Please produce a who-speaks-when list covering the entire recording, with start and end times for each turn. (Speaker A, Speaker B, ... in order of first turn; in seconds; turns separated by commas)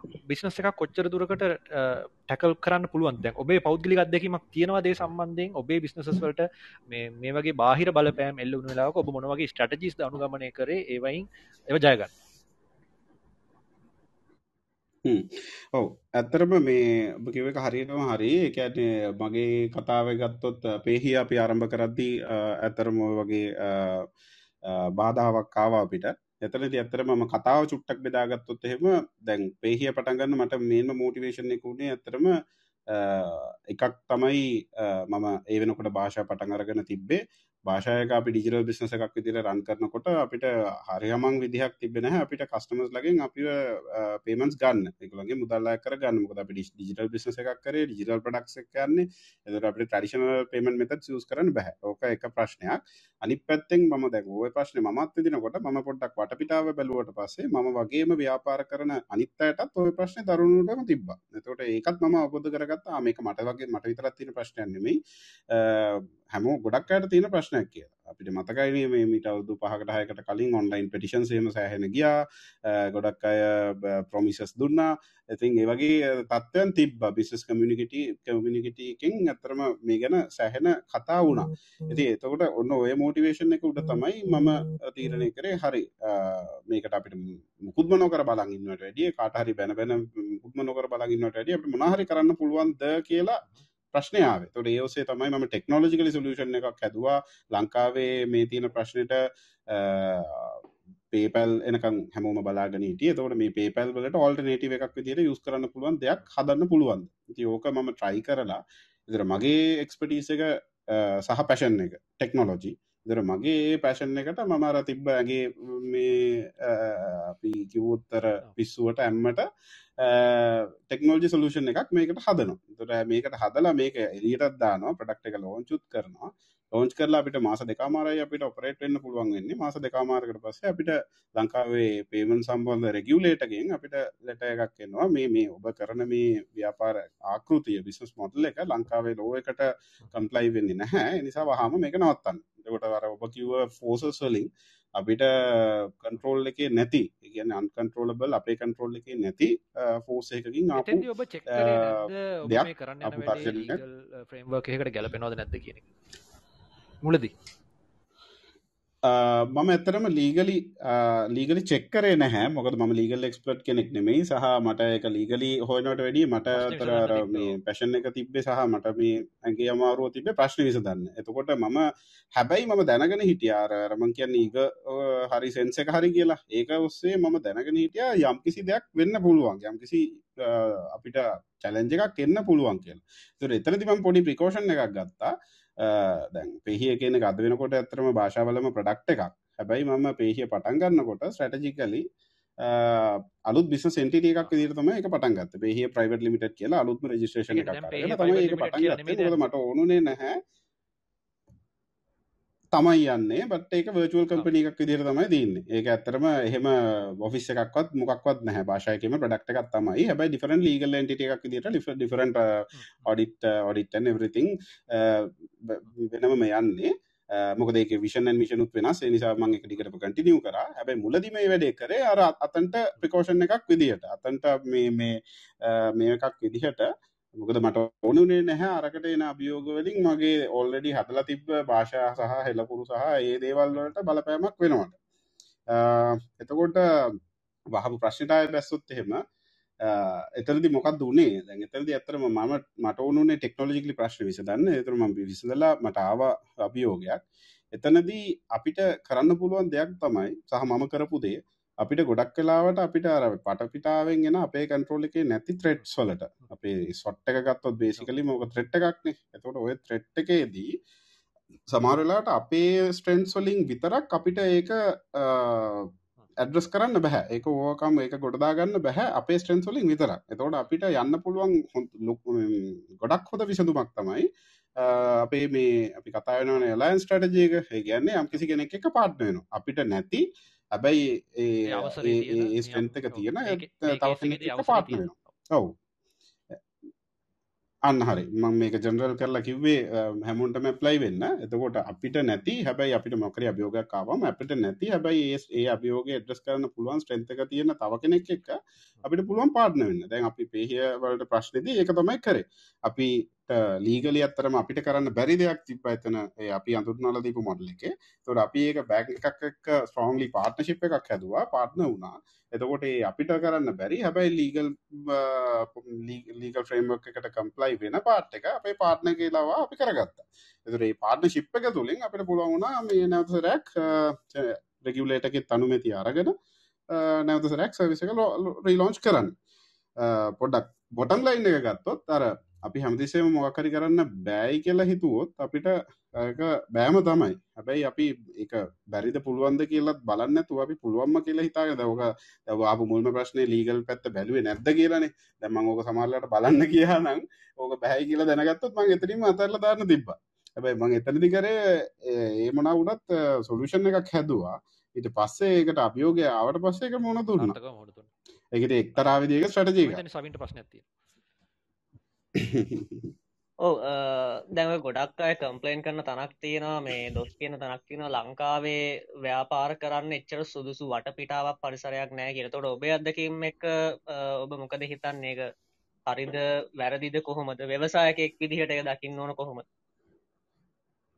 Speaker A: 0.3-12.1, Speaker B: 15.1-24.1, Speaker B: 24.6-32.3, Speaker B: 32.9-65.0, Speaker B: 65.5-119.5, Speaker B: 120.0-153.8, Speaker A: 150.7-155.8, Speaker A: 157.0-157.3, Speaker B: 159.0-171.8, Speaker A: 166.6-167.6, Speaker B: 172.4-192.1, Speaker B: 192.6-200.4, Speaker A: 197.5-199.4, Speaker B: 202.7-235.0, Speaker B: 235.7-237.1, Speaker B: 237.7-239.2, Speaker B: 239.8-247.2, Speaker B: 247.7-260.7, Speaker B: 261.7-285.8, Speaker A: 281.7-285.1, Speaker B: 287.9-326.4, Speaker B: 326.9-329.3, Speaker B: 330.0-357.6, Speaker A: 357.4-358.1, Speaker B: 358.5-360.0, Speaker A: 359.8-360.9, Speaker B: 362.4-363.0, Speaker C: 363.6-375.5, Speaker C: 376.1-379.6